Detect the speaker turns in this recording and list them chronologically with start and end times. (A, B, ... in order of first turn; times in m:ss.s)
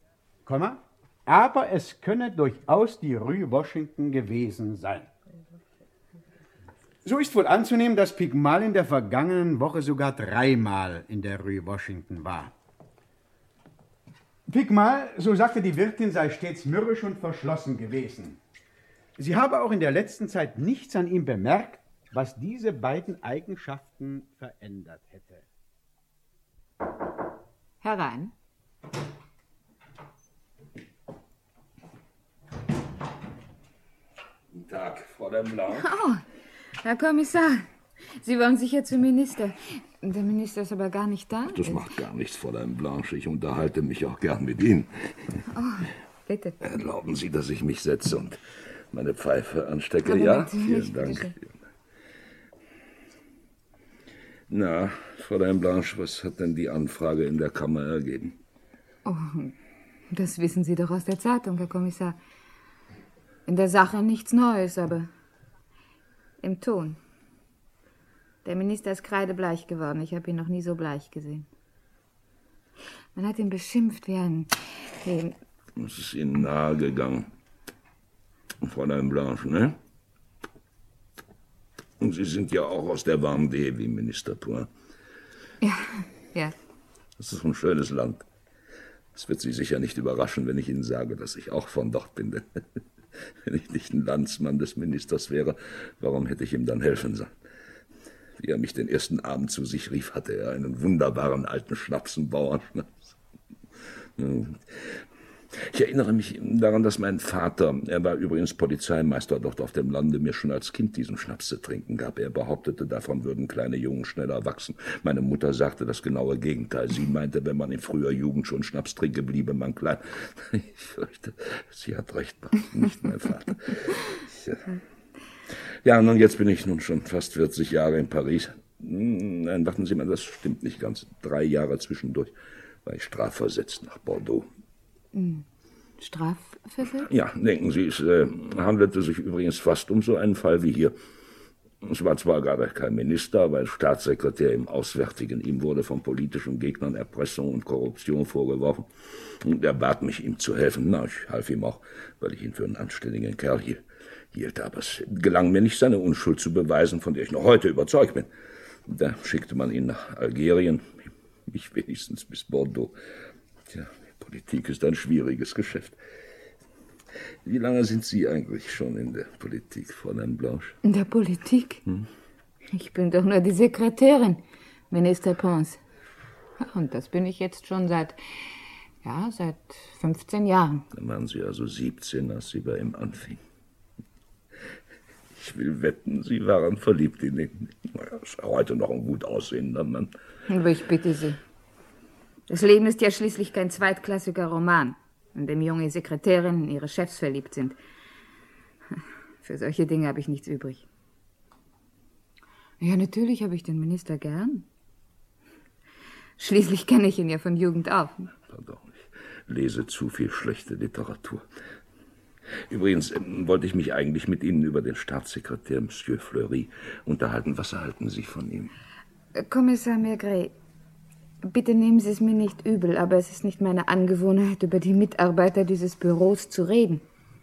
0:00.4-0:05.1 A
0:07.0-0:12.5 A
0:14.5-0:18.4 A
0:19.2-0:25.4 A
0:27.8-0:28.3 B
0:34.5-0:35.9 C
0:36.8-0:37.6 B
0:38.2-0:39.5 B
0:40.0-0:41.5 B
0:41.4-0:45.4 C
0:45.6-0:46.5 B
0:46.6-0:51.5 C
0:50.4-0:51.2 B
0:54.5-0:58.4 C
0:59.0-0:59.5 B
1:00.1-1:02.1 B
1:03.5-1:05.1 B
1:06.4-1:07.0 B
1:08.4-1:11.4 B
1:13.2-1:14.5 B
1:15.0-1:15.3 B
1:15.8-1:17.3 C
1:18.6-1:19.8 C
1:22.0-1:24.7 C
1:27.2-1:28.2 C
1:29.1-1:32.6 C
1:33.4-1:37.3 C
1:38.4-1:43.1 C
1:44.2-1:45.0 C
1:45.5-2:04.8 C
2:05.8-2:14.5 C
2:15.1-2:15.4 B
2:16.0-2:17.0 B
2:17.0-2:20.9 C
2:21.8-2:38.3 C
2:38.8-2:42.9 C
2:43.7-2:46.0 C
2:47.4-2:50.8 C
2:50.9-2:51.8 B
2:52.8-2:54.4 B
2:54.9-2:55.8 B
2:56.6-2:58.1 B
2:59.0-3:00.8 B
3:00.9-3:03.4 C
3:05.3-3:10.1 C
3:10.5-3:11.4 B
3:12.5-3:17.7 B
3:19.4-3:20.8 B
3:22.8-3:24.6 B
3:26.4-3:28.3 B
3:28.5-3:31.4 C
3:32.7-3:38.7 C
3:39.4-3:40.5 B
3:41.5-3:47.0 B